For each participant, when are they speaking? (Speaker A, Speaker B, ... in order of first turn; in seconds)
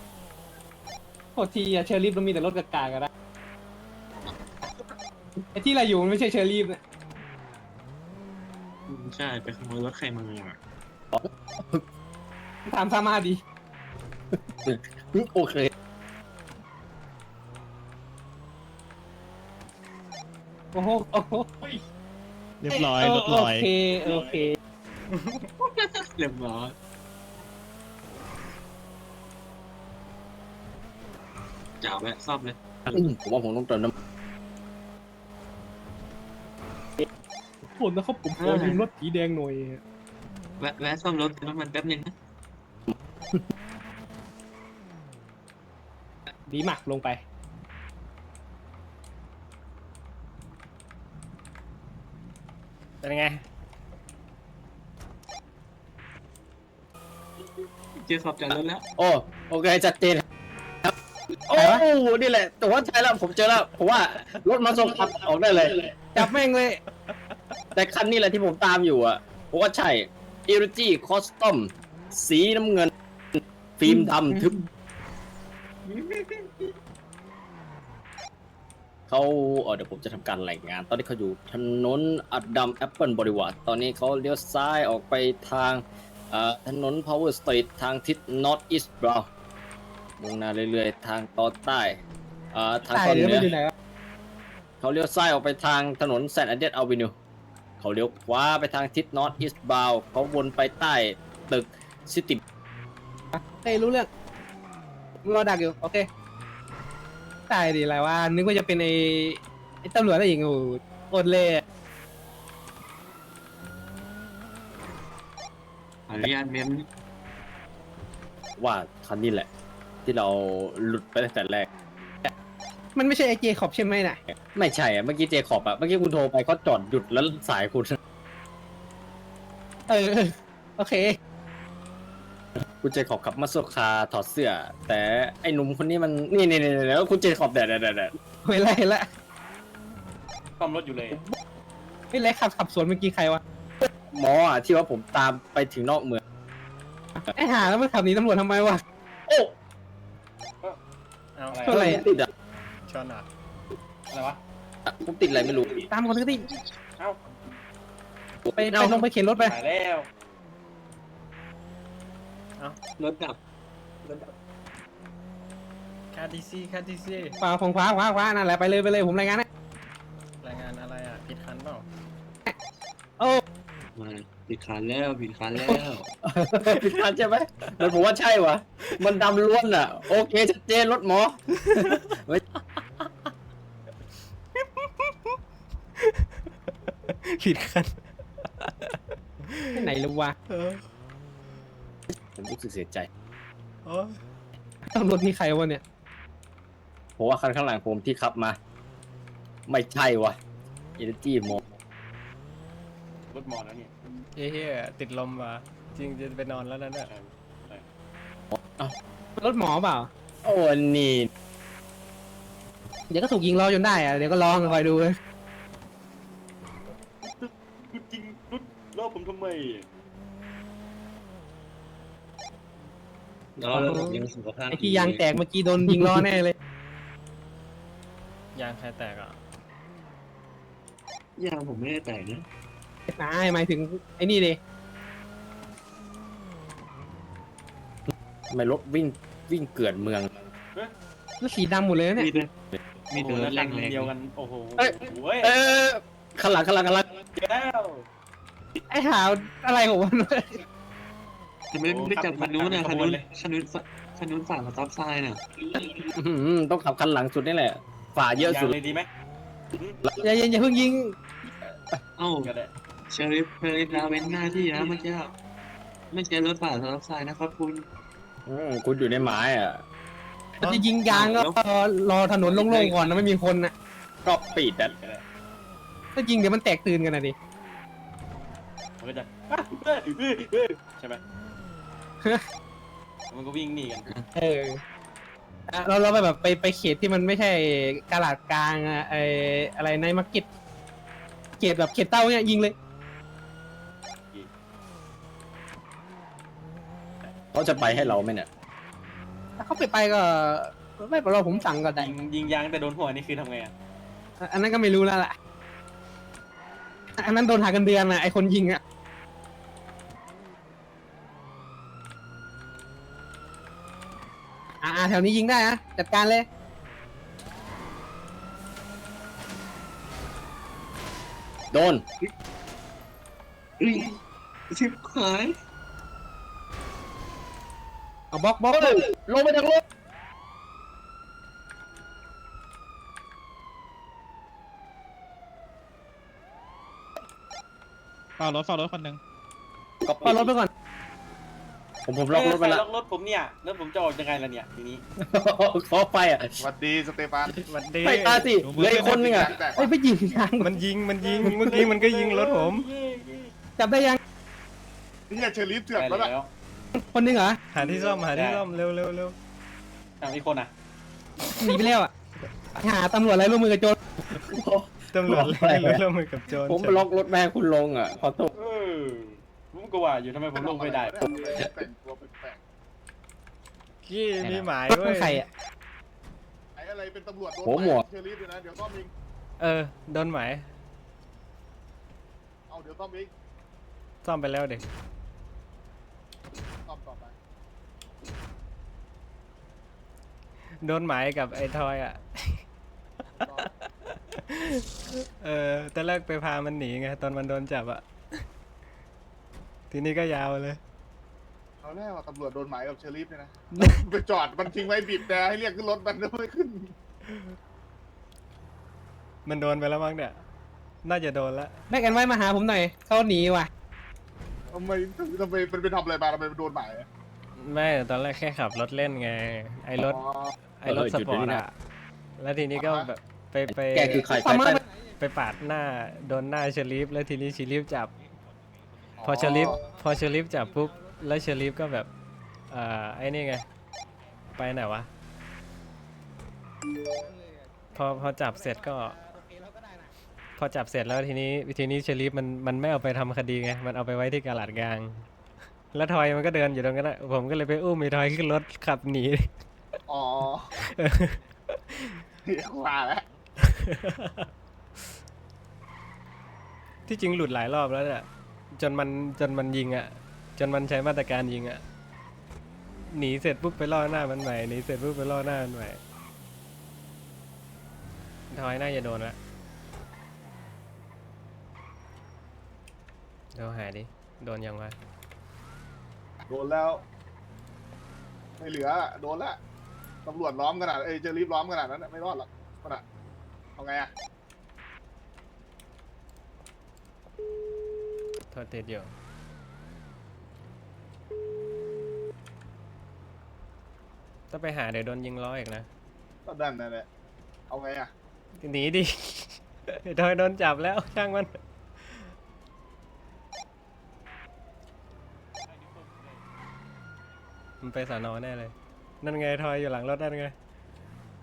Speaker A: 1.4-3.1, 5.5-6.8, 12.7-13.4, 20.7-21.7, 22.7-24.6, 37.7-39.8, 46.5-47.2, 61.5-61.9, 66.2-66.8, 92.9-93.7, 103.3-104.1, 105.2-106.1, 107.5-111.6, 123.0-124.2, 129.9-131.2, 138.4-139.1, 142.1-143.4, 147.2-148.8, 151.7-152.0, 155.9-156.5, 158.6-159.5, 167.4-169.5, 189.7-190.3, 194.9-195.8, 209.4-210.1, 213.1-215.2, 223.7-226.6, 233.1-234.6, 241.4-242.3, 248.9-250.6, 260.2-261.1, 270.6-273.7, 276.1-277.4, 284.3-284.8, 285.7-290.5, 291.6-292.8, 299.6-302.1, 304.4-305.4, 307.2-308.8, 314.8-316.5, 328.3-329.1, 340.2-340.7, 349.8-350.7, 353.8-354.2, 357.0-357.6, 361.6-362.1, 362.8-364.0, 374.9-375.5, 411.9-413.7, 424.3-424.8, 439.2-440.1
Speaker B: 8.9-10.6, 25.6-26.8, 31.8-32.6, 38.4-38.9, 40.6-42.1, 58.0-58.8, 73.9-74.7, 75.8-76.7, 116.1-116.9, 163.0-163.4, 164.0-164.3, 173.9-176.1, 223.6-225.2, 231.4-232.4, 242.2-242.5, 243.1-244.1, 251.7-255.4, 262.2-262.5, 263.1-265.3, 266.1-267.9, 271.1-271.6, 323.8-324.2, 324.7-325.6
Speaker C: 11.1-11.8, 14.7-15.7, 32.9-33.9, 42.9-43.4, 59.0-60.2, 61.5-66.0, 67.8-74.5, 79.1-89.3, 90.2-92.0, 92.5-93.5, 94.8-97.1, 97.8-102.4, 118.6-119.5, 120.0-121.7, 124.5-128.0, 132.8-138.1, 143.8-146.2, 149.3-149.5, 151.7-152.3, 154.9-155.9, 158.4-159.0, 176.2-182.4, 192.1-193.1, 197.2-198.6, 199.7-200.4, 201.0-201.6, 208.5-208.9, 210.4-211.3, 238.1-240.3, 244.8-247.1, 256.1-258.8, 268.5-269.8, 274.2-274.9, 297.5-298.5, 321.7-322.1, 328.7-329.8, 340.0-340.5, 342.1-342.9, 345.2-346.6, 348.0-349.6, 364.3-366.0, 366.6-368.5, 377.6-378.0, 420.9-421.6, 423.7-424.8
Speaker D: 22.6-23.7, 338.4-339.2, 348.6-349.4
Speaker E: 25.1-25.4, 53.0-53.4, 151.4-151.6, 152.9-153.3, 166.1-167.4, 170.4-171.9, 176.7-177.0, 181.7-182.1, 184.6-185.3, 186.0-186.3, 186.8-189.8, 190.5-190.8, 193.9-194.2, 204.4-207.1, 228.6-229.4, 347.7-348.5, 350.6-352.9, 357.7-359.4, 365.1-367.1, 374.1-375.4, 379.6-380.6, 384.2-384.8, 390.8-392.6, 394.3-398.5, 399.9-400.8, 403.8-404.0, 409.5-410.4, 411.0-411.8, 417.6-420.2, 420.8-421.7, 422.4-424.3, 425.2-428.1, 429.2-432.1, 432.7-433.6, 434.6-435.1, 437.9-439.2, 440.6-445.2, 445.9-449.5, 450.8-452.2, 453.6-454.5, 457.1-461.8, 463.1-466.0, 468.5-469.4, 473.6-475.0, 488.5-489.1, 494.5-495.9, 498.6-501.5, 507.8-510.5
Speaker F: 140.6-141.2, 151.5-152.0, 154.1-154.4, 159.4-160.1, 203.3-203.9, 207.1-207.9, 217.2-219.9, 243.1-245.6, 247.3-248.1, 251.8-253.2, 258.4-259.1, 259.7-260.0, 262.4-262.7, 272.4-273.3, 274.5-275.2, 279.0-281.2, 283.3-284.1, 297.7-298.2, 301.9-303.7, 342.3-345.0, 351.2-353.5, 355.9-356.5, 357.8-358.6, 360.2-360.7, 368.5-371.5, 505.6-506.4
Speaker G: 346.6-347.6, 349.0-349.9, 355.3-356.3, 370.5-372.6, 376.8-379.1, 382.7-383.3, 386.9-387.3, 393.4-393.7, 401.8-406.9, 414.7-417.1, 420.1-420.5, 422.8-423.1, 429.2-429.8, 450.1-450.7, 452.5-453.3, 476.5-477.0, 478.6-479.6, 480.2-483.0, 483.8-484.1, 496.5-497.1, 497.7-498.1